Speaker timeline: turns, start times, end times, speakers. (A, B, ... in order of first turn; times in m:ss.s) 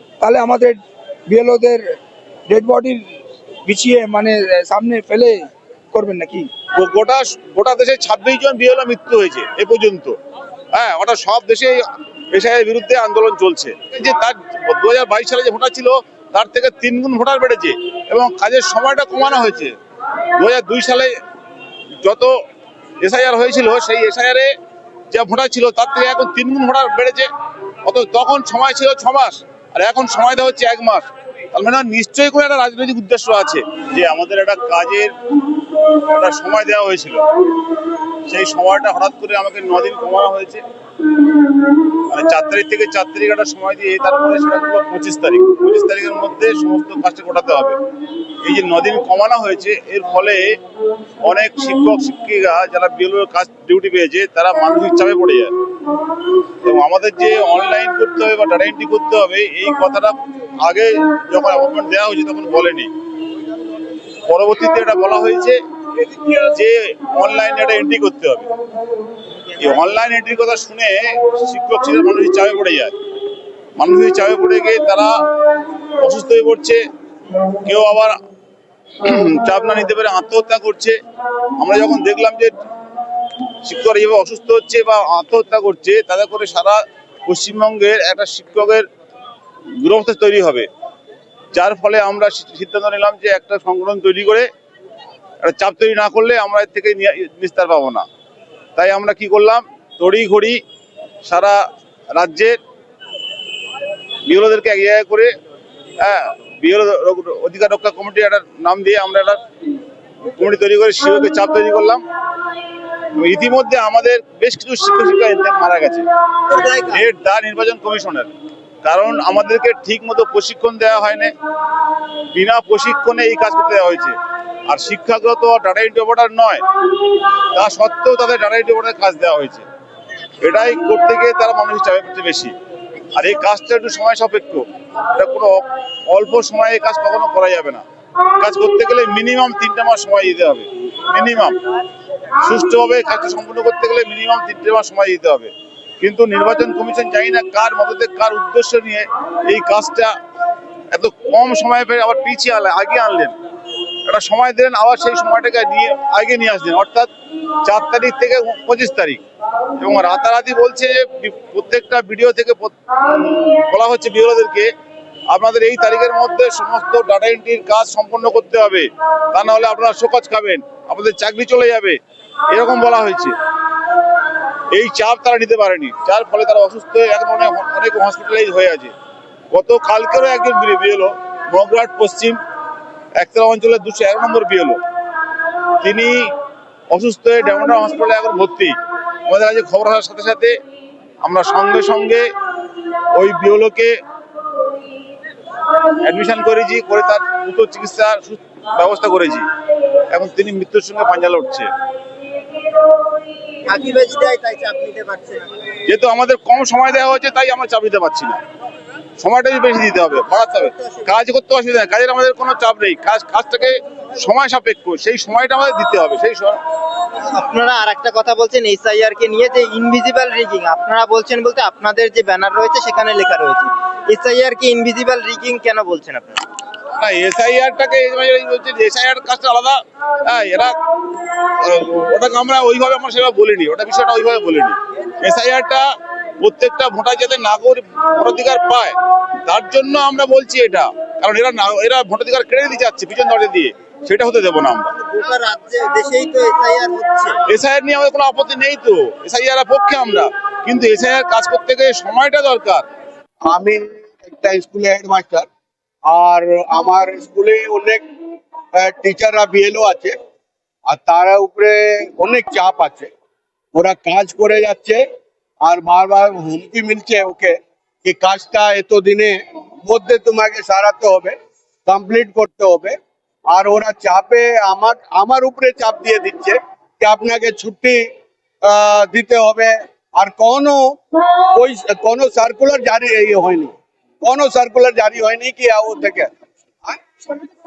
0:00.2-0:01.8 A
0:02.5-0:03.0 A
0:03.6-0:06.5 A
0:06.7-0:10.2 B
0:10.7-0:11.8 B
0:12.3-0:19.7 B
0:20.3-0:21.1 B
0:22.0-0:22.3 B
0:23.0-0:24.5 B
0:25.1-0:27.3 B
0:27.8-0:35.1 B
0:36.0-0:37.2 B
0:38.3-0:40.6 B
0:42.1-0:47.8 B
0:48.4-0:50.6 B
0:51.2-0:55.5 B
0:56.6-1:02.9 B
1:04.2-1:05.6 B
1:06.1-1:08.5 B
1:09.6-1:12.9 B
1:13.8-1:15.1 B
1:16.0-1:16.8 B
1:17.6-1:18.1 B
1:19.0-1:21.0 B
1:21.6-1:22.5 B
1:23.6-1:28.8 B
1:29.8-1:30.7 B
1:31.5-1:34.5 B
1:35.4-1:38.0 B
1:38.8-1:40.6 B
1:41.2-1:41.6 B
1:42.1-1:42.6 B
1:44.2-1:45.3 B
1:46.0-1:49.4 B
1:50.3-1:52.0 B
1:53.1-1:56.0 B
1:56.5-1:57.0 C
1:56.9-1:58.3 B
1:58.8-2:01.3 B
2:02.3-2:04.1 B
2:04.7-2:06.6 B
2:07.5-2:09.6 B
2:10.4-2:12.5 B
2:13.1-2:17.8 B
2:18.4-2:21.6 B
2:22.4-2:30.1 B
2:30.9-2:33.3 B
2:34.0-2:37.1 B
2:37.6-2:39.2 B
2:39.8-2:44.7 B
2:45.3-2:52.0 B
2:52.5-2:53.3 B
2:54.7-2:58.9 B
2:59.5-3:02.4 B
3:03.2-3:04.8 B
3:05.8-3:06.3 B
3:06.9-3:08.7 B
3:09.2-3:10.6 B
3:11.2-3:12.3 B
3:13.1-3:14.0 B
3:16.0-3:19.5 B
3:20.1-3:21.7 B
3:23.6-3:25.6 C
3:25.8-3:28.4 B
3:29.2-3:36.6 B
3:37.1-3:46.4 C
3:47.0-3:50.7 B
3:51.6-3:55.8 B
3:56.4-4:04.9 B
4:05.0-4:07.4 C
4:07.5-4:12.8 B
4:13.4-4:15.5 D
4:16.1-4:18.0 D
4:18.7-4:20.1 D
4:20.9-4:23.1 D
4:23.7-4:25.0 D
4:25.6-4:31.3 D
4:31.8-4:33.0 D
4:33.5-4:38.0 D
4:38.6-4:46.3 D
4:46.8-4:47.4 D